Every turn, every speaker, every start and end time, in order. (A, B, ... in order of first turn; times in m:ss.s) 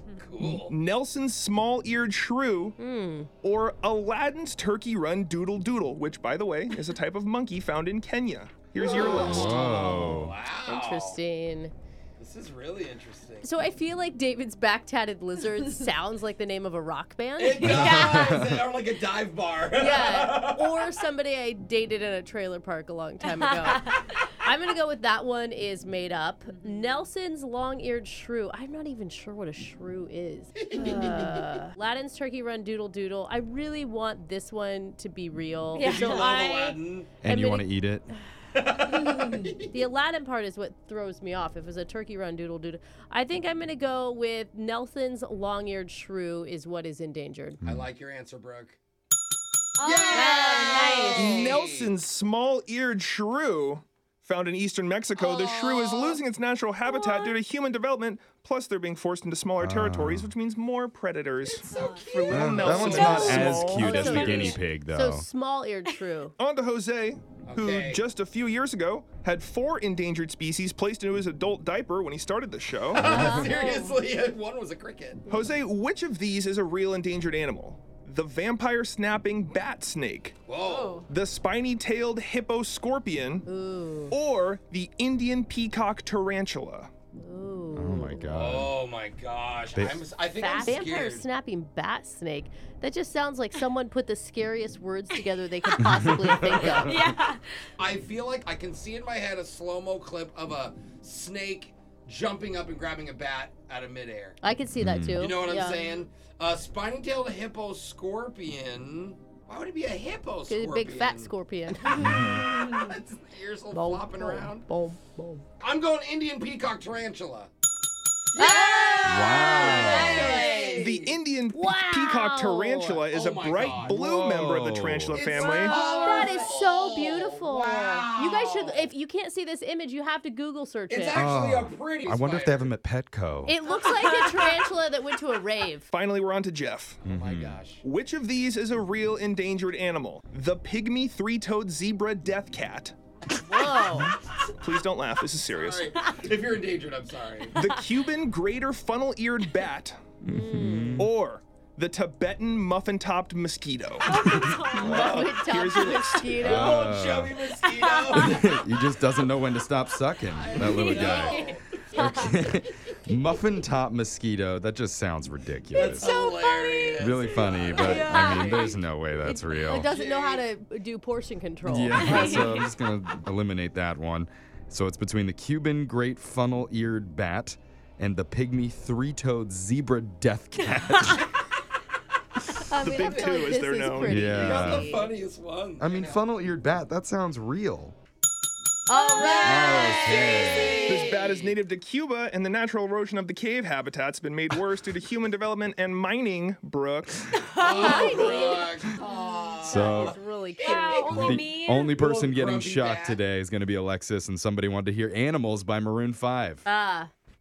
0:00.2-0:00.7 A
0:00.4-0:02.8 B
0:02.8-0:03.3 C
0:03.4-0:09.7 B
0:08.8-0:11.2 A
0:09.0-0:10.1 C
0:09.0-0:10.3 D
0:10.6-0:11.7 C
0:12.2-0:13.7 A
0:13.4-0:18.3 C
0:17.4-0:21.0 A
0:17.6-0:18.4 E
0:17.7-0:18.6 D
0:19.8-0:23.8 C
0:23.2-0:24.1 E
0:24.4-0:36.2 C
0:30.6-0:31.6 A
0:35.8-0:36.8 E
0:35.8-0:37.1 A
0:37.2-0:38.1 D
0:37.2-0:37.7 C
0:38.5-0:39.8 A
0:39.7-0:47.6 C
0:47.6-0:47.9 D
0:47.6-0:48.8 A
0:49.8-0:51.5 E
0:49.8-0:52.0 A
0:50.2-0:51.3 C
0:51.1-1:04.5 B
0:55.2-0:56.2 A
0:56.8-0:57.3 E
0:59.6-1:00.3 D
1:01.4-1:03.7 A
1:01.7-1:04.6 E
1:02.3-1:05.2 D
1:03.1-1:06.3 C
1:06.4-1:13.2 B
1:07.4-1:08.0 A
1:13.0-1:15.3 A
1:13.0-1:13.4 D
1:13.1-1:13.5 C
1:13.1-1:14.0 E
1:15.3-1:20.5 B
1:20.5-1:21.0 A
1:20.6-1:21.1 E
1:21.1-1:23.5 B
1:23.4-1:24.1 C
1:24.1-1:26.9 B
1:27.2-1:28.3 C
1:27.7-1:28.7 D
1:28.3-1:31.3 A
1:29.7-1:30.0 D
1:30.4-1:37.0 C
1:35.2-1:35.9 E
1:35.8-1:37.0 D
1:36.2-1:36.9 A
1:36.7-1:37.4 E
1:37.8-1:44.4 A
1:44.4-1:45.8 C
1:44.8-1:45.2 D
1:45.1-1:51.3 A
1:50.5-1:52.8 C
1:51.8-1:54.7 A
1:52.0-1:52.6 D
1:53.7-1:55.4 C
1:55.6-1:57.5 A
1:58.3-2:01.2 A
1:58.4-2:00.8 C
1:59.0-2:00.4 D
2:00.0-2:05.9 B
2:01.5-2:03.0 C
2:03.0-2:04.0 A
2:03.8-2:05.3 D
2:05.1-2:08.9 A
2:05.5-2:11.2 C
2:10.9-2:12.7 A
2:11.1-2:13.6 D
2:13.4-2:15.8 C
2:13.8-2:14.6 E
2:15.9-2:17.0 B
2:17.0-2:17.8 A
2:17.0-2:17.6 D
2:17.8-2:22.9 B
2:23.4-2:24.1 C
2:24.6-2:26.1 B
2:25.4-2:27.6 A
2:27.5-2:30.0 B
2:27.6-2:27.9 E
2:30.2-2:31.1 D
2:30.3-2:31.0 C
2:31.0-2:36.6 B
2:34.0-2:35.3 E
2:34.4-2:35.2 D
2:34.7-2:36.8 C
2:34.9-2:35.4 A
2:36.4-2:37.4 D
2:36.5-2:38.4 A
2:37.5-2:38.5 E
2:38.1-2:41.4 D
2:40.2-2:42.6 A
2:40.6-2:42.4 E
2:41.9-2:46.1 D
2:45.7-2:48.8 E
2:45.7-2:50.5 A
2:47.0-2:50.0 D
2:49.2-2:52.4 C
2:51.6-3:01.3 D
2:51.9-2:52.6 E
3:02.7-3:05.1 C
3:02.8-3:04.3 B
3:02.8-3:03.4 A
3:04.0-3:05.0 D
3:04.3-3:06.3 A
3:05.8-3:08.0 D
3:08.9-3:09.4 C
3:08.9-3:10.4 E
3:09.1-3:11.6 A
3:09.4-3:11.0 D
3:10.8-3:17.3 B
3:17.4-3:18.5 E
3:17.5-3:23.2 A
3:17.7-3:18.7 C
3:19.6-3:21.3 C
3:19.6-3:20.2 D
3:20.6-3:21.9 E
3:21.2-3:26.6 D
3:26.6-3:27.1 C